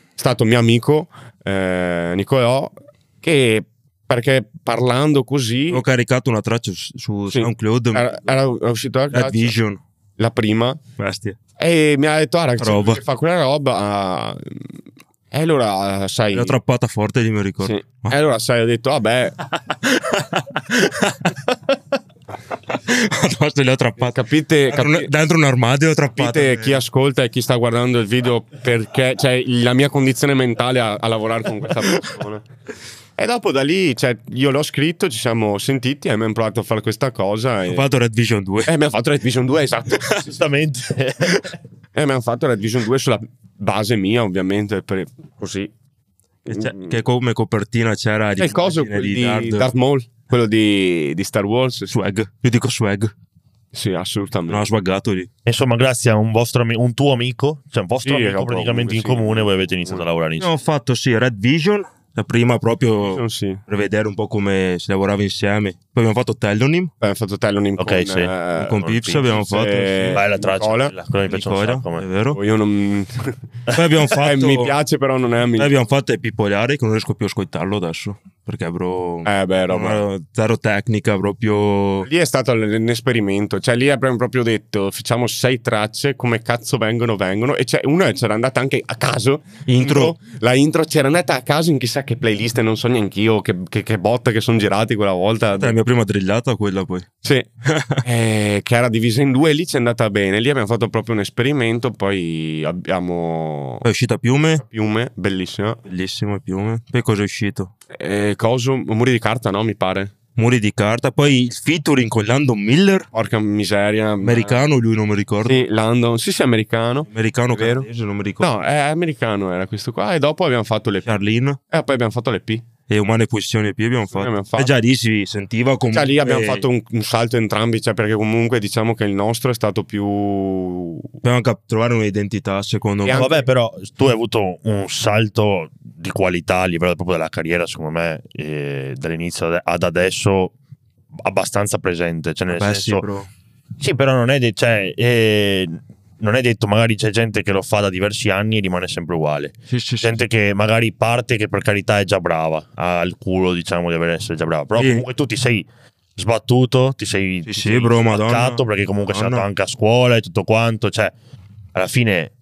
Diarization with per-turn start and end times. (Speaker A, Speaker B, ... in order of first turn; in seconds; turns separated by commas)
Speaker A: 0.2-5.8, Speaker B: 5.7-8.1, Speaker A: 7.3-9.5, Speaker B: 9.1-9.8, Speaker A: 10.2-10.8, Speaker B: 11.0-11.4, Speaker A: 11.6-14.7, Speaker B: 12.6-13.0, Speaker A: 15.3-16.6, Speaker B: 16.3-18.1, Speaker A: 17.6-19.4, Speaker B: 19.7-21.6, Speaker B: 22.7-26.8, Speaker A: 24.0-25.1, Speaker A: 26.1-32.4, Speaker A: 33.2-37.8, Speaker B: 37.6-38.7, Speaker A: 38.6-40.3, Speaker C: 40.1-41.5, Speaker A: 41.9-45.7, Speaker A: 46.5-47.0, Speaker B: 46.5-49.7, Speaker A: 48.4-52.0, Speaker B: 51.9-53.1, Speaker A: 53.7-54.7, Speaker B: 54.5-55.3, Speaker C: 55.5-60.5, Speaker A: 58.0-60.0, Speaker B: 60.4-66.9, Speaker A: 63.0-63.6, Speaker A: 67.0-70.9, Speaker C: 67.8-69.2, Speaker B: 68.6-70.2, Speaker C: 70.1-72.0, Speaker B: 71.3-72.4, Speaker A: 72.3-73.3, Speaker B: 73.7-74.8, Speaker A: 74.1-75.7, Speaker B: 75.5-82.1, Speaker A: 79.2-80.0, Speaker A: 82.0-95.8, Speaker B: 89.7-90.1, Speaker B: 95.6-97.1, Speaker B: 97.6-98.0, Speaker A: 98.0-103.8, Speaker B: 103.8-104.6, Speaker A: 104.6-105.8, Speaker B: 105.9-107.7, Speaker A: 107.9-110.1, Speaker B: 110.3-113.1, Speaker A: 113.1-114.6, Speaker B: 114.2-115.6, Speaker A: 115.4-117.9, Speaker B: 117.1-118.5, Speaker A: 118.4-121.1, Speaker B: 121.0-121.6, Speaker A: 121.7-122.6, Speaker B: 122.9-126.6, Speaker A: 124.1-124.7, Speaker A: 125.9-131.1, Speaker B: 131.2-133.3, Speaker A: 133.0-133.4, Speaker C: 133.1-140.5, Speaker C: 141.2-143.1, Speaker B: 142.5-143.3, Speaker C: 143.8-161.1, Speaker B: 149.7-150.2, Speaker B: 154.8-155.0, Speaker B: 157.5-159.4, Speaker C: 161.7-162.3